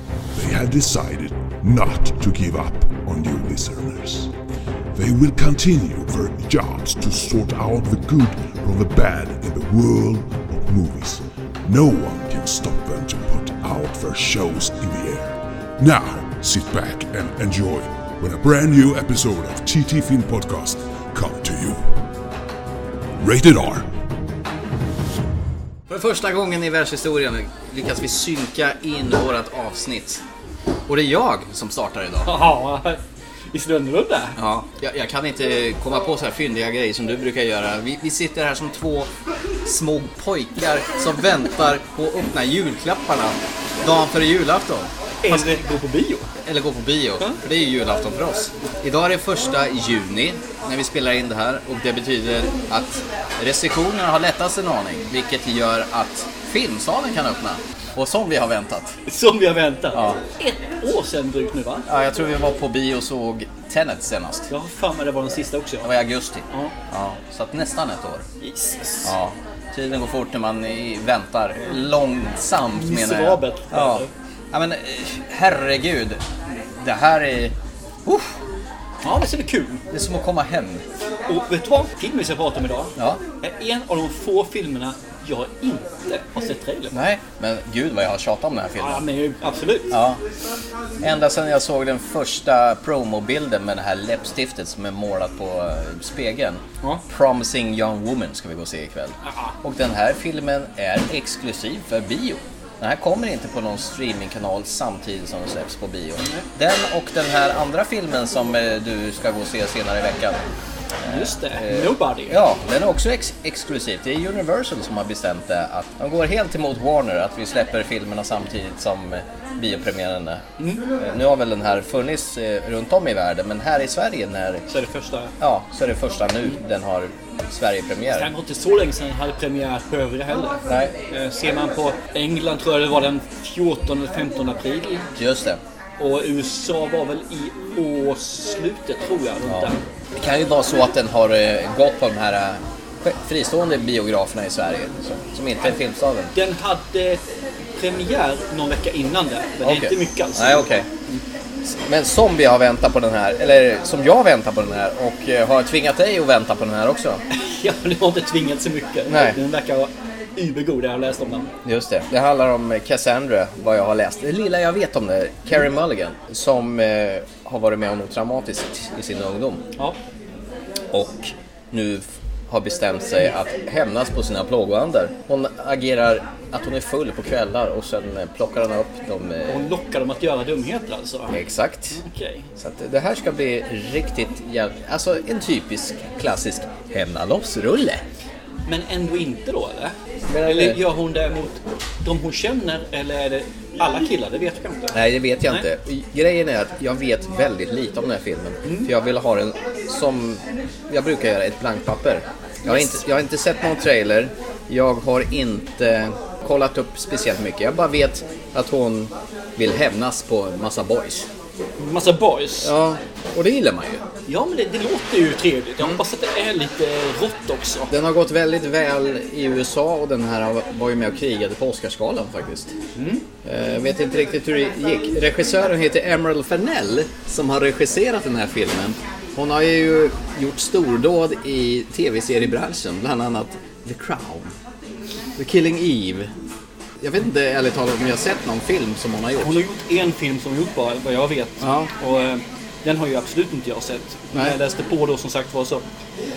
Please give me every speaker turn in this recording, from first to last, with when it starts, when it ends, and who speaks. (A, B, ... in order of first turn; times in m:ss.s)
0:00.3-0:04.3 A
0:04.9-0:21.9 A
0:23.2-0:23.9 A
0:25.9-0:30.2 B
0:30.9-0:32.4 B
0:32.2-0:34.4 C
0:34.4-0:39.1 B
0:39.6-0:45.5 B
0:45.2-0:46.3 C
0:46.4-0:59.0 B
0:59.0-1:01.9 C
0:59.9-1:00.2 B
1:01.8-1:04.5 B
1:04.5-1:05.9 C
1:05.8-1:08.3 B
1:08.4-1:09.1 C
1:09.0-1:17.5 B
1:12.8-1:14.1 C
1:18.0-1:18.4 B
1:19.0-1:19.9 C
1:19.9-1:20.8 B
1:21.3-1:27.0 C
1:23.0-1:23.2 B
1:26.9-1:29.0 B
1:28.8-1:30.0 C
1:29.9-1:30.2 B
1:31.0-1:50.4 B
1:39.2-1:39.6 C
1:46.2-1:46.5 C
1:51.0-2:00.4 B
1:51.0-1:52.4 C
2:00.6-2:00.8 C
2:01.0-2:04.6 B
2:04.7-2:05.4 C
2:05.4-2:08.3 B
2:08.1-2:15.1 C
2:10.6-2:10.9 B
2:15.2-2:15.6 B
2:16.0-2:19.8 C
2:19.4-2:26.3 B
2:26.3-2:27.2 C
2:27.8-2:31.2 C
2:29.6-2:30.9 B
2:31.6-2:37.2 B
2:37.3-2:41.5 C
2:39.0-2:39.4 B
2:41.6-2:49.6 B
2:50.9-2:59.7 B
2:59.5-3:01.4 C
3:01.3-3:02.0 B
3:01.9-3:02.5 C
3:02.6-3:08.0 B
3:08.6-3:15.7 C
3:10.3-3:10.8 B
3:14.9-3:31.3 B
3:18.6-3:18.9 C
3:22.6-3:23.0 C
3:31.8-3:32.7 C
3:32.6-3:34.0 B
3:34.3-3:37.9 C
3:37.9-3:42.7 B
3:42.9-3:43.2 C
3:43.4-3:54.5 B
3:55.4-3:56.3 B
3:57.0-3:59.6 B
3:59.4-4:05.8 C
4:01.6-4:01.9 B